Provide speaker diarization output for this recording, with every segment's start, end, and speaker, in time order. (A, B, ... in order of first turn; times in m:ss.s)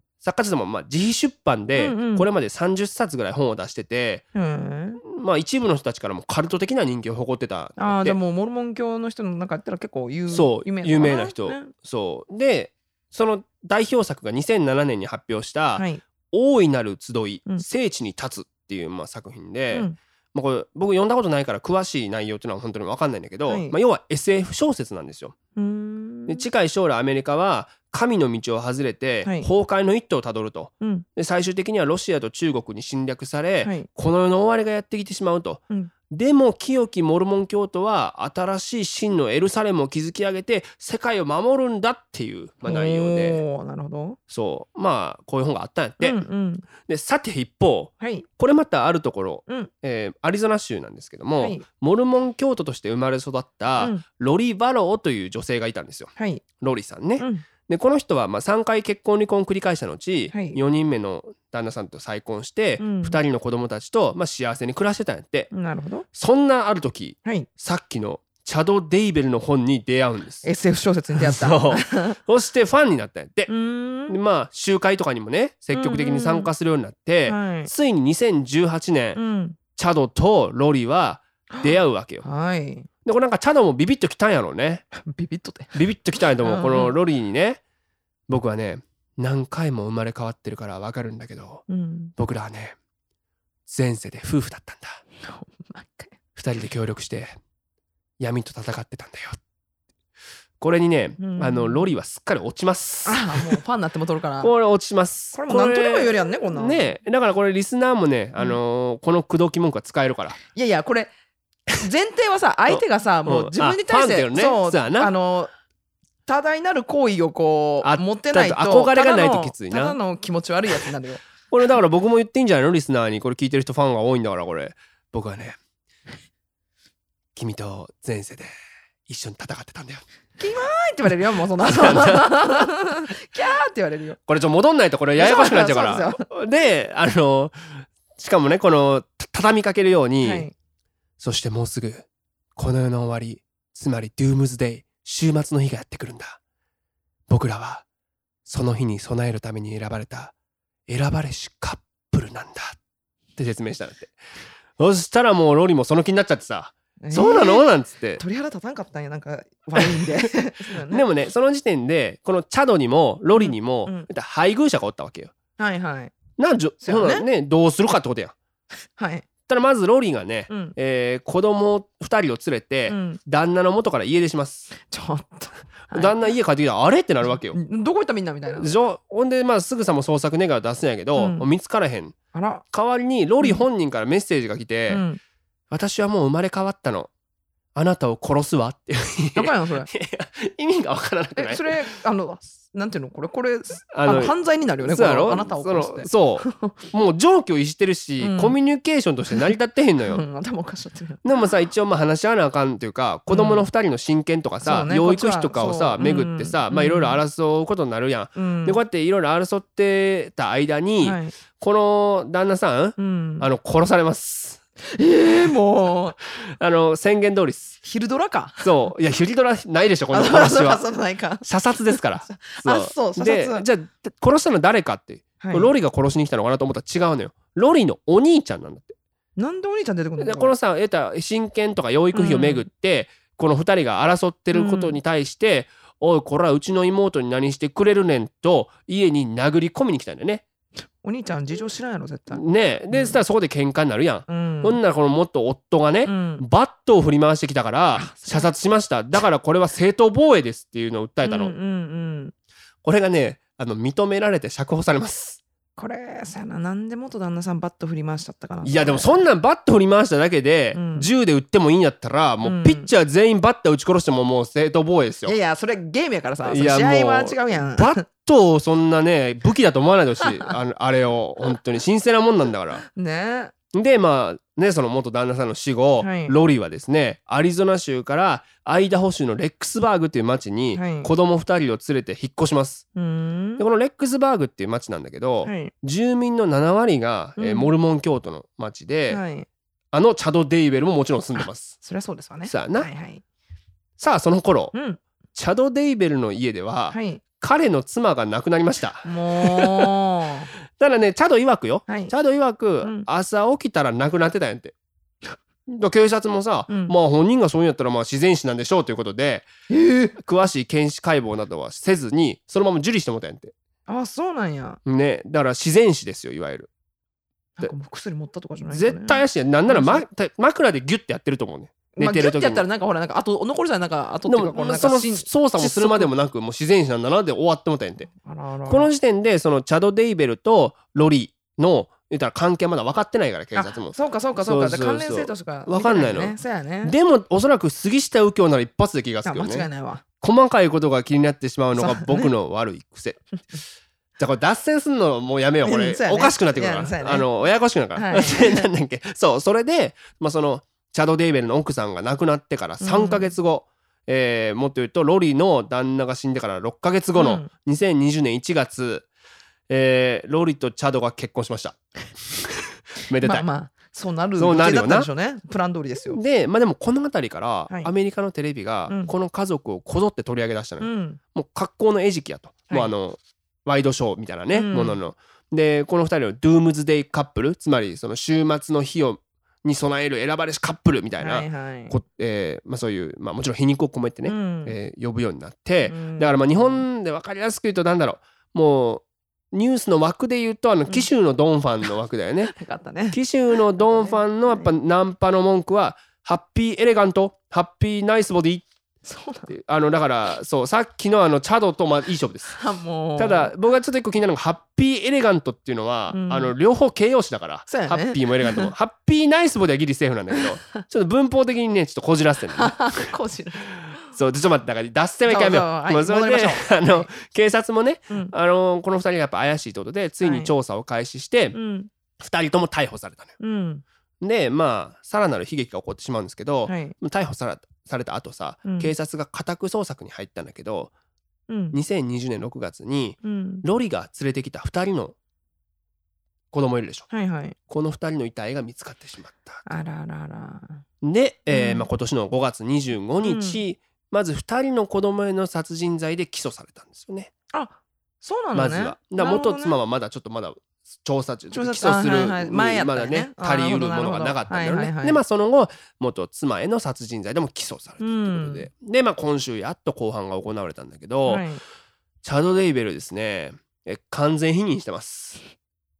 0:00.2-0:04.2 A
0:01.7-0:02.3 B
0:04.3-0:05.0 B
0:05.0-0:08.2 A
0:07.8-0:11.7 B
0:10.3-0:25.4 A
0:15.8-0:16.0 B
0:19.7-0:20.0 B
0:23.5-0:23.8 B
0:25.6-0:26.4 B
0:26.3-0:43.4 A
0:33.6-0:33.9 B
0:42.6-0:44.2 B
0:44.3-0:46.2 A
0:46.0-0:46.7 B
0:46.8-1:05.5 A
0:48.0-0:48.2 B
0:51.4-0:51.6 B
0:56.2-0:56.4 B
0:57.2-0:57.4 B
1:00.3-1:00.6 B
1:02.8-1:03.2 B
1:05.5-1:06.0 B
1:06.1-1:10.4 A
1:10.4-1:12.2 B
1:11.1-1:13.5 A
1:13.5-1:14.2 B
1:14.1-1:19.2 A
1:15.7-1:16.5 B
1:17.3-1:17.7 B
1:19.1-1:19.6 B
1:19.8-1:22.2 A
1:21.5-1:22.9 B
1:23.0-1:24.8 A
1:24.9-1:25.8 B
1:25.7-1:27.6 A
1:26.4-1:27.0 B
1:28.3-1:31.6 A
1:31.7-1:32.1 B
1:32.2-1:32.8 A
1:33.7-1:35.0 A
1:35.2-1:36.2 B
1:36.4-1:37.4 A
1:38.2-1:39.4 A
1:40.6-1:43.6 A
1:41.2-1:41.9 B
1:43.0-1:44.5 B
1:44.4-1:50.4 A
1:45.3-1:46.9 B
1:50.5-1:51.1 B
1:51.7-1:55.5 B
1:52.7-1:55.1 A
1:56.3-2:01.2 B
1:57.8-2:00.0 A
2:01.5-2:05.6 A
2:07.4-2:08.5 A
2:09.1-2:10.0 A
2:10.4-2:14.2 B
2:11.6-2:12.7 A
2:14.3-2:20.5 A
2:15.2-2:16.3 B
2:20.2-2:20.5 B
2:21.2-2:26.4 A
2:27.3-2:27.8 A
2:28.4-2:30.3 A
2:30.9-2:32.8 A
2:33.4-2:34.1 A
2:34.8-2:38.2 A
2:37.0-2:41.0 B
2:39.8-2:45.3 A
2:43.3-2:44.1 B
2:45.6-2:46.1 B
2:46.4-2:48.3 A
2:46.8-2:47.2 B
2:49.0-2:49.3 B
2:49.5-2:54.7 A
2:50.5-2:50.7 B
2:52.9-2:53.2 B
2:54.7-2:56.3 B
2:55.9-2:57.6 A
2:57.3-2:58.7 B
2:58.6-3:02.2 A
3:01.2-3:01.5 B
3:02.3-3:02.6 B
3:02.7-3:05.0 A
3:04.9-3:05.2 B
3:05.7-3:07.1 A
3:07.7-3:11.8 A
3:09.3-3:09.9 B
3:11.4-3:16.8 B
3:13.9-3:20.2 A
3:18.2-3:18.6 B
3:20.0-3:21.2 B
3:21.2-3:34.6 A
3:23.3-3:23.6 B
3:24.6-3:27.2 B
3:28.4-3:28.8 B
3:31.0-3:31.4 B
3:33.0-3:33.5 B
3:34.9-3:36.2 B
3:36.3-3:37.8 A
3:37.8-3:38.9 B
3:38.6-3:40.8 A
3:40.1-3:43.6 B
3:41.4-3:49.0 A
3:45.4-3:45.7 B
3:49.4-3:50.5 B
3:50.2-4:00.4 A
3:52.1-3:52.6 B
3:54.5-3:55.0 B
4:01.0-4:03.2 B
4:02.3-4:11.6 A
4:04.3-4:04.8 B
4:06.0-4:06.4 B
4:08.0-4:08.5 B
4:11.2-4:12.3 B
4:12.8-4:15.4 A
4:15.8-4:19.2 B
4:18.6-4:25.4 A
4:20.7-4:21.1 B
4:22.4-4:22.9 B
4:25.2-4:28.0 B
4:26.4-4:32.8 A
4:32.9-4:33.5 B
4:33.7-4:42.8 A
4:36.0-4:36.4 B
4:40.7-4:41.1 B
4:42.9-4:43.6 B
4:43.6-4:49.2 A
4:45.4-4:45.7 B
4:47.4-4:47.7 B
4:49.1-4:49.5 B
4:49.9-4:51.8 A
4:51.8-4:53.2 B
4:52.4-4:52.9 A
4:54.0-4:54.7 A
4:54.7-4:55.0 B
4:55.3-5:00.0 A
4:56.9-4:57.2 B
4:59.0-5:00.5 B
5:00.7-5:04.7 A
5:01.9-5:02.1 B
5:02.8-5:03.1 B
5:05.7-5:09.5 A
5:06.7-5:06.9 B
5:09.7-5:10.2 B
5:10.2-5:13.5 A
5:13.9-5:14.8 B
5:14.8-5:16.7 A
5:17.6-5:20.0 B
5:18.7-5:22.6 A
5:21.9-5:26.1 B
5:24.3-5:28.1 A
5:28.1-5:28.9 B
5:28.7-5:39.7 A
5:33.5-5:36.9 B
5:39.2-5:40.0 B
5:40.2-5:43.2 A
5:41.7-5:42.3 B
5:44.2-5:59.0 A
5:45.6-5:47.3 B
5:47.9-5:48.7 B
5:52.8-5:53.3 B
5:57.2-5:57.5 B
5:59.7-6:03.4 A
6:03.2-6:06.2 B
6:04.4-6:05.1 A
6:06.1-6:32.5 A
6:10.8-6:11.2 B
6:14.5-6:15.0 B
6:21.2-6:22.0 B
6:24.2-6:24.8 B
6:25.8-6:26.8 B
6:32.4-6:34.7 B
6:33.1-6:38.6 A
6:39.0-6:39.5 B
6:39.5-6:42.6 A
6:42.6-6:43.5 B
6:43.2-6:53.1 A
6:46.1-6:46.5 B
6:47.7-6:48.7 B
6:50.4-6:50.8 B
6:52.6-6:54.1 B
6:53.9-7:01.6 A
6:55.2-6:57.1 B
7:00.2-7:00.5 B
7:01.5-7:01.9 B
7:02.2-7:03.3 A
7:03.4-7:03.8 B
7:04.2-7:10.9 A
7:06.7-7:06.9 B
7:08.6-7:08.9 B
7:11.5-7:11.8 B
7:11.7-7:15.1 A
7:13.2-7:13.6 B
7:16.5-7:17.1 A
7:17.1-7:17.6 B
7:17.7-7:19.6 A
7:19.6-7:20.8 B
7:21.0-7:27.3 A
7:21.5-7:21.9 B
7:23.2-7:23.6 B
7:27.5-7:29.8 B
7:28.5-7:41.4 A
7:31.5-7:35.2 B
7:38.0-7:38.7 B
7:41.2-7:41.6 B
7:42.2-7:45.4 A